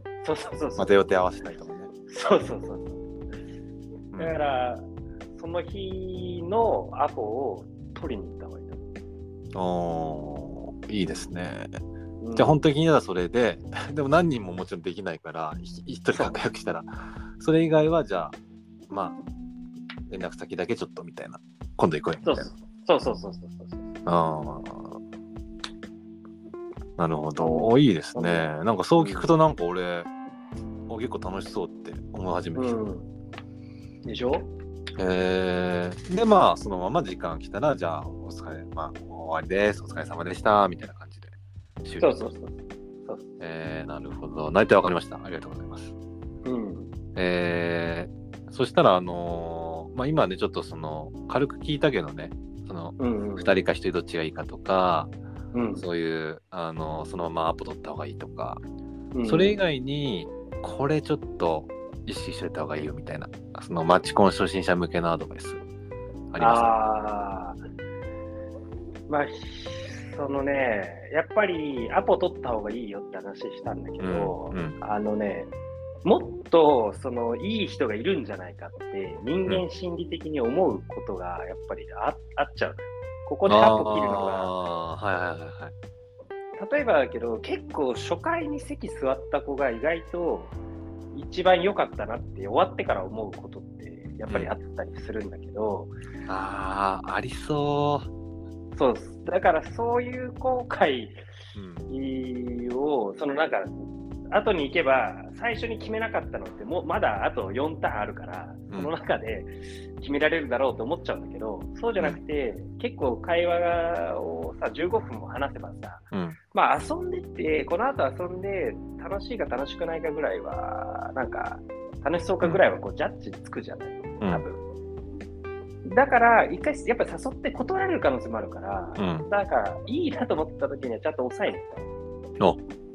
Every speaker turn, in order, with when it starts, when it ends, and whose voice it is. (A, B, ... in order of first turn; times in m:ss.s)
0:00.2-0:01.1 A
0:00.8-0:01.9 B
0:02.1-0:03.0 A
0:04.1-0:04.4 B
0:04.2-0:04.8 A
0:05.4-0:08.8 A
0:09.5-0:11.7 B
0:12.2-0:12.6 A
0:12.4-0:18.4 B
0:16.1-0:16.4 A
0:18.9-0:19.2 B
0:20.1-0:22.5 B
0:22.2-0:24.0 A
0:24.0-0:25.0 B
0:27.0-0:30.1 B
0:27.4-0:29.3 A
0:30.9-0:32.8 B
0:32.6-0:33.1 A
0:34.0-0:34.5 A
0:35.0-0:42.2 B
0:42.0-0:42.6 A
0:43.1-0:43.3 A
0:43.4-0:45.9 B
0:46.4-0:46.9 A
0:47.1-0:55.1 B
0:53.0-0:53.6 A
0:55.5-0:55.8 A
0:55.8-0:58.6 B
0:59.1-0:59.6 A
0:59.2-1:05.6 B
1:06.3-1:06.8 B
1:06.4-1:07.6 A
1:09.1-1:15.5 A
1:14.0-1:14.7 B
1:16.0-1:24.5 A
1:23.5-1:25.7 B
1:26.6-1:30.5 A
1:31.1-1:35.9 A
1:36.3-1:38.1 B
1:38.7-1:41.2 A
1:41.5-1:41.8 B
1:41.9-2:04.6 A
1:56.1-1:56.4 B
2:05.8-2:11.8 A
2:09.0-2:09.3 B